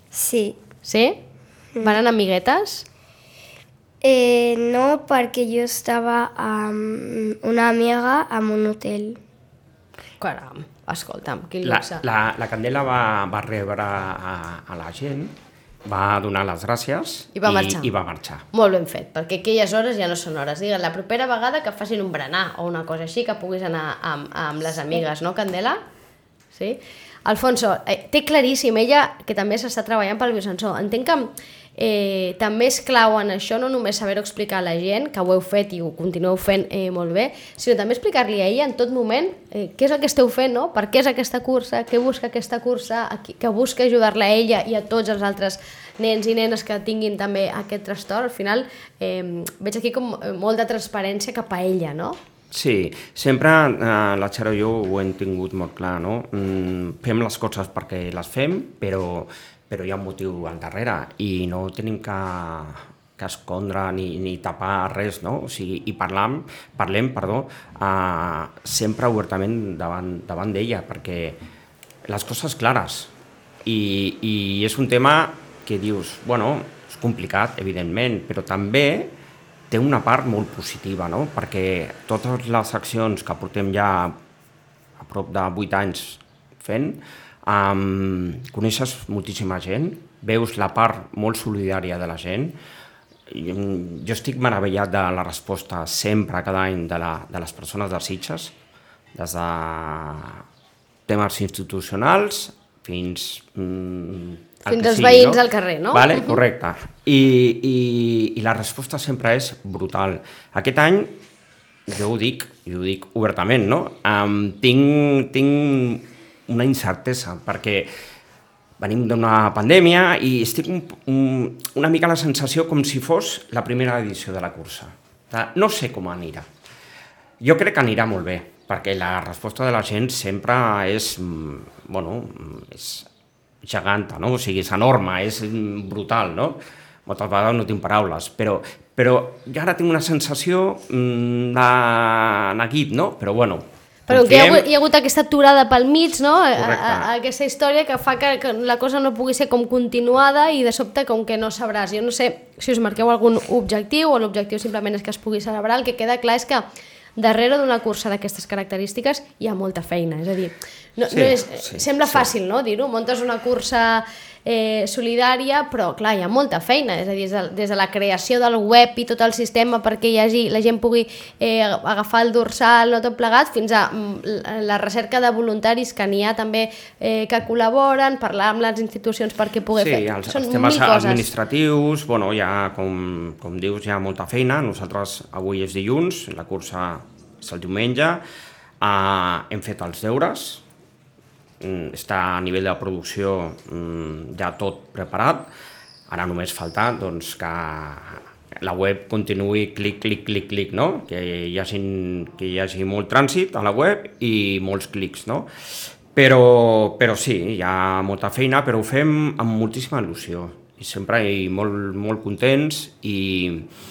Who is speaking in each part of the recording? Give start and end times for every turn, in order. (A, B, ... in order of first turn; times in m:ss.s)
0:00.1-0:00.6 A
0:00.8-0:01.2 B
0:01.8-0:02.9 B
0:04.0-0:09.2 A
0:10.2-0:12.0 B
0:11.6-0:18.5 C
0:17.4-0:17.9 B
0:18.5-0:25.8 B
0:26.5-0:52.2 B
0:52.5-1:11.4 C
1:12.1-1:13.1 C
1:13.6-1:19.2 C
1:19.7-1:24.2 C
1:25.0-1:32.6 C
1:33.3-1:38.5 C
1:39.2-1:40.4 C
1:41.1-1:51.1 C
1:44.7-1:46.4 B
1:51.9-1:57.9 C
1:58.8-2:06.5 C
2:07.4-2:13.1 C
2:13.6-2:24.7 C
2:24.1-2:36.6 B
2:26.6-2:27.1 C
2:37.2-3:01.3 B
2:41.1-2:42.3 C
2:59.8-3:08.2 C
3:08.8-3:10.6 C
3:11.6-3:15.5 C
3:16.1-3:25.5 C
3:26.2-3:33.7 C